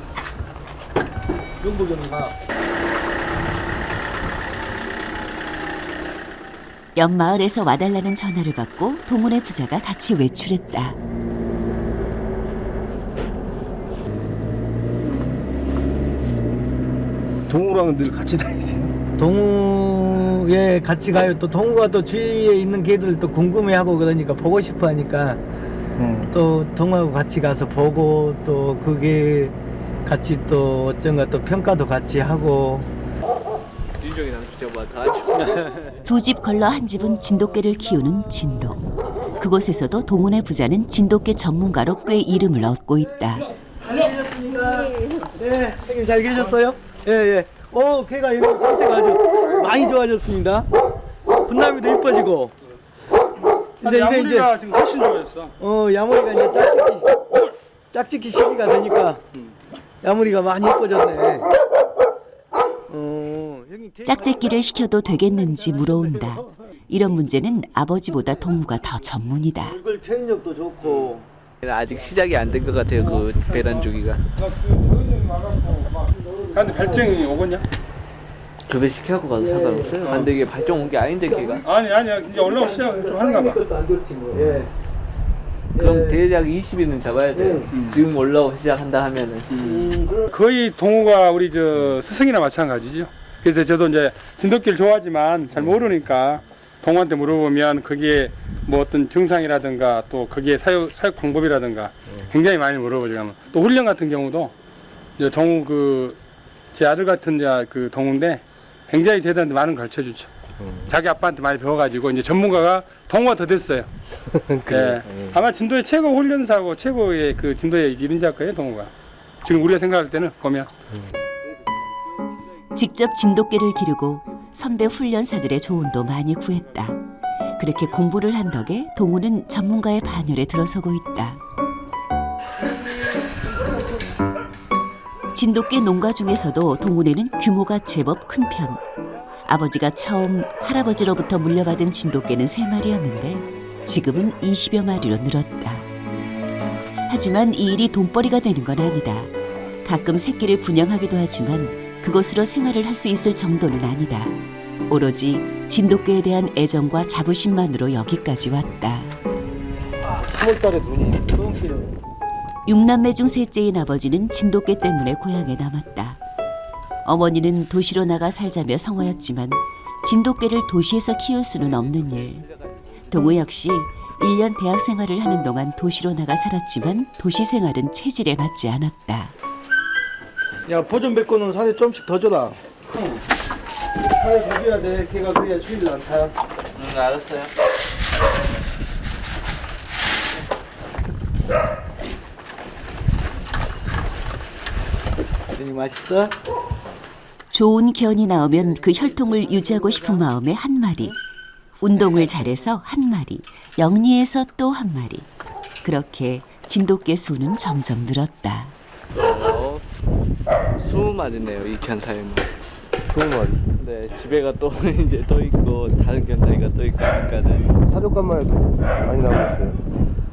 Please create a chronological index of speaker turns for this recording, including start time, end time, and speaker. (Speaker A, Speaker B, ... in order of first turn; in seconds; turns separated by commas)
Speaker A: 1.6-2.3, Speaker B: 7.0-11.0, Speaker C: 17.5-18.9, Speaker A: 19.2-25.4, Speaker C: 26.0-26.3, Speaker A: 26.2-32.9, Speaker D: 34.0-35.6, Speaker A: 35.4-36.0, Speaker B: 36.1-38.9, Speaker B: 39.4-43.5, Speaker A: 43.8-50.7, Speaker A: 51.5-52.5, Speaker A: 53.8-54.5, Speaker E: 53.8-55.5, Speaker A: 55.6-57.3, Speaker A: 57.9-59.2, Speaker A: 60.0-61.5, Speaker A: 62.9-64.5, Speaker B: 64.0-69.8, Speaker A: 65.7-66.4, Speaker A: 69.7-71.2, Speaker D: 70.8-74.2, Speaker E: 73.0-73.8, Speaker E: 74.4-77.7, Speaker A: 76.1-77.1, Speaker D: 78.7-81.6, Speaker A: 79.4-79.9, Speaker E: 80.0-80.3, Speaker E: 81.7-83.6, Speaker A: 82.3-84.7, Speaker A: 85.8-86.2, Speaker D: 85.8-89.5, Speaker A: 87.3-87.7, Speaker E: 87.7-88.0, Speaker E: 89.5-104.5, Speaker A: 89.6-90.2, Speaker E: 105.2-106.2, Speaker E: 106.7-110.3, Speaker E: 110.9-113.9, Speaker C: 114.5-115.4, Speaker E: 114.7-118.9, Speaker E: 119.5-120.7, Speaker B: 122.8-127.0, Speaker B: 127.6-131.4, Speaker B: 135.3-138.8, Speaker B: 139.5-145.9, Speaker B: 147.1-149.3, Speaker B: 149.8-154.4, Speaker B: 154.9-159.1, Speaker C: 160.3-161.2, Speaker A: 161.3-161.9, Speaker B: 162.7-166.2, Speaker B: 167.1-172.4, Speaker D: 171.6-173.0, Speaker B: 173.1-179.3, Speaker A: 180.7-183.2, Speaker A: 184.1-186.3, Speaker D: 186.8-187.5, Speaker A: 195.5-196.4, Speaker B: 197.5-201.2, Speaker B: 201.8-205.3, Speaker B: 205.8-208.8, Speaker D: 209.2-209.8, Speaker D: 210.8-212.5, Speaker C: 213.1-213.6, Speaker D: 213.8-217.7, Speaker C: 217.9-219.8